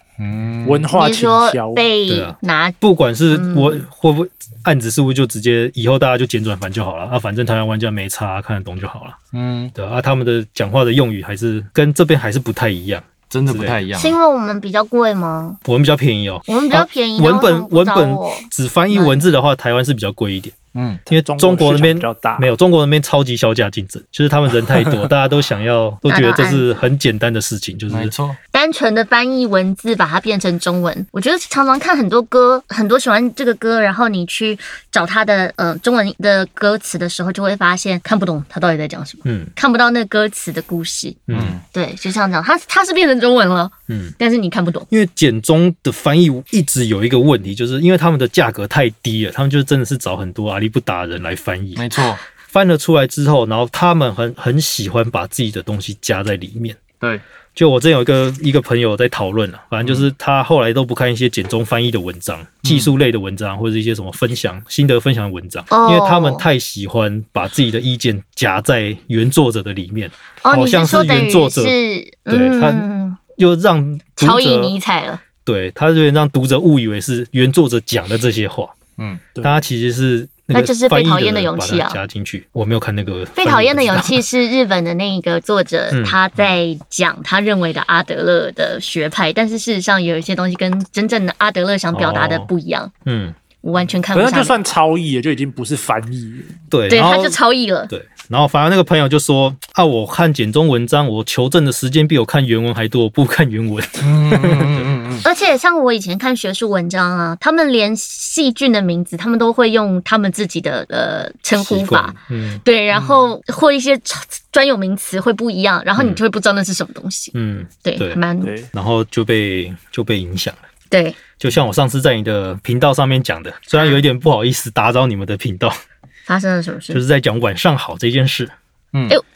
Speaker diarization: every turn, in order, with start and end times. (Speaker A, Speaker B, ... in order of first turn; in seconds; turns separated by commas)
Speaker A: 0.2-0.9, Speaker B: 0.7-1.9, Speaker C: 0.9-2.8, Speaker D: 2.1-9.2, Speaker C: 3.3-3.8, Speaker A: 9.3-9.7, Speaker D: 9.8-13.8, Speaker A: 13.3-14.2, Speaker C: 14.0-15.6, Speaker D: 15.7-20.6, Speaker C: 16.5-19.2, Speaker A: 20.7-21.0, Speaker D: 21.1-28.1, Speaker B: 21.2-22.5, Speaker C: 26.1-26.7, Speaker A: 27.9-28.4, Speaker C: 28.5-41.2, Speaker D: 39.2-39.5, Speaker D: 41.3-41.6, Speaker A: 41.3-41.6, Speaker C: 41.7-44.9, Speaker D: 43.9-44.1, Speaker D: 44.9-51.9, Speaker A: 51.8-52.2, Speaker D: 52.5-56.8, Speaker D: 57.6-71.8, Speaker A: 62.6-62.9, Speaker C: 65.7-66.4, Speaker C: 70.4-73.2, Speaker D: 72.3-74.8, Speaker C: 74.2-75.2, Speaker D: 75.5-78.8, Speaker A: 79.0-79.2, Speaker D: 79.4-84.2, Speaker C: 80.5-82.0, Speaker C: 83.4-92.9, Speaker D: 85.9-86.2, Speaker D: 91.9-92.5, Speaker D: 93.0-93.4, Speaker C: 93.6-94.5, Speaker B: 94.1-96.5, Speaker D: 96.7-104.9, Speaker C: 96.9-97.9, Speaker A: 104.0-105.2, Speaker C: 105.2-118.5, Speaker D: 111.6-112.6, Speaker D: 117.3-118.2, Speaker B: 118.4-118.7, Speaker D: 118.7-120.6, Speaker C: 120.9-121.2, Speaker D: 121.4-125.8, Speaker C: 126.3-127.0, Speaker D: 126.9-128.5, Speaker A: 128.9-129.2